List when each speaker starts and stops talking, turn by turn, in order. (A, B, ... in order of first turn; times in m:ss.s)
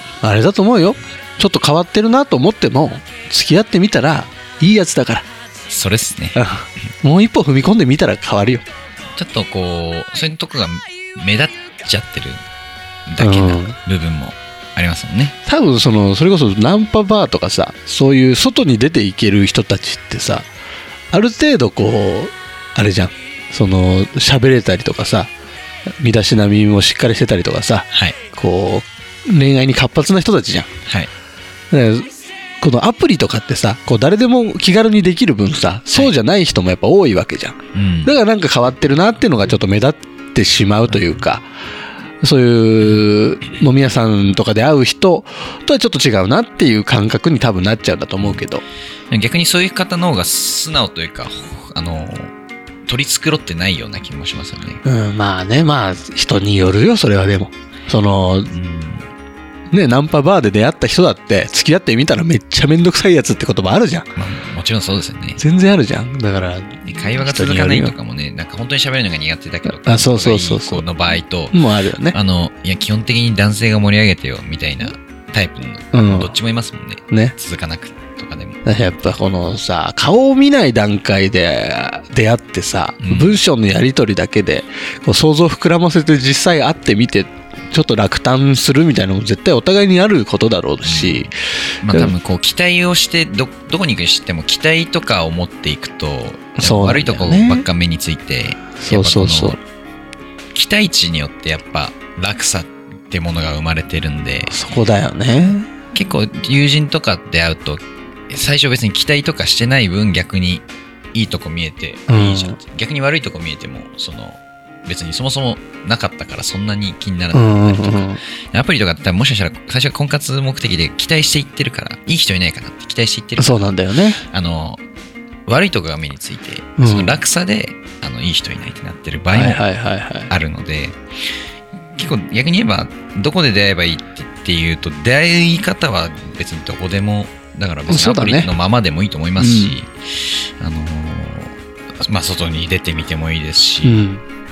0:00.2-0:05.2 A
0:05.7-0:06.4 B
0:06.3-0:08.6 A
0:09.2-0:12.4 B
0:13.1-0:15.3 B
0:13.2-0:13.8 A
0:15.4-0:20.5 A
0:21.1-0:25.3 A
0:26.0-0:30.7 A
0:27.9-0:28.2 B
0:31.7-0:32.1 A
0:32.6-0:41.5 A
0:37.7-0:38.1 B
0:42.2-0:48.6 A
0:49.1-0:52.3 B
0:52.9-0:54.8 B
0:54.8-0:58.5 A
0:58.5-0:59.1 B
0:59.7-1:04.1 A
1:04.1-1:05.4 B
1:05.4-1:07.9 A
1:06.8-1:11.5 B
1:09.6-1:10.9 A
1:11.5-1:12.2 A
1:12.1-1:18.6 B
1:15.9-1:16.4 A
1:17.1-1:17.3 A
1:18.6-1:31.3 A
1:23.0-1:23.4 B
1:30.8-1:31.3 B
1:31.8-1:39.6 B
1:36.6-1:37.7 A
1:38.8-1:39.6 A
1:40.5-1:44.5 B
1:44.5-1:45.7 A
1:45.9-2:03.6 B
1:52.1-1:52.6 A
1:57.3-1:58.2 A
2:03.4-2:04.2 A
2:04.3-2:04.8 B
2:05.5-2:09.7 B
2:06.8-2:07.2 A
2:09.3-2:10.3 A
2:10.3-2:11.0 B
2:12.0-2:24.0 B
2:17.9-2:18.5 A
2:19.4-2:19.7 A
2:23.8-2:24.2 A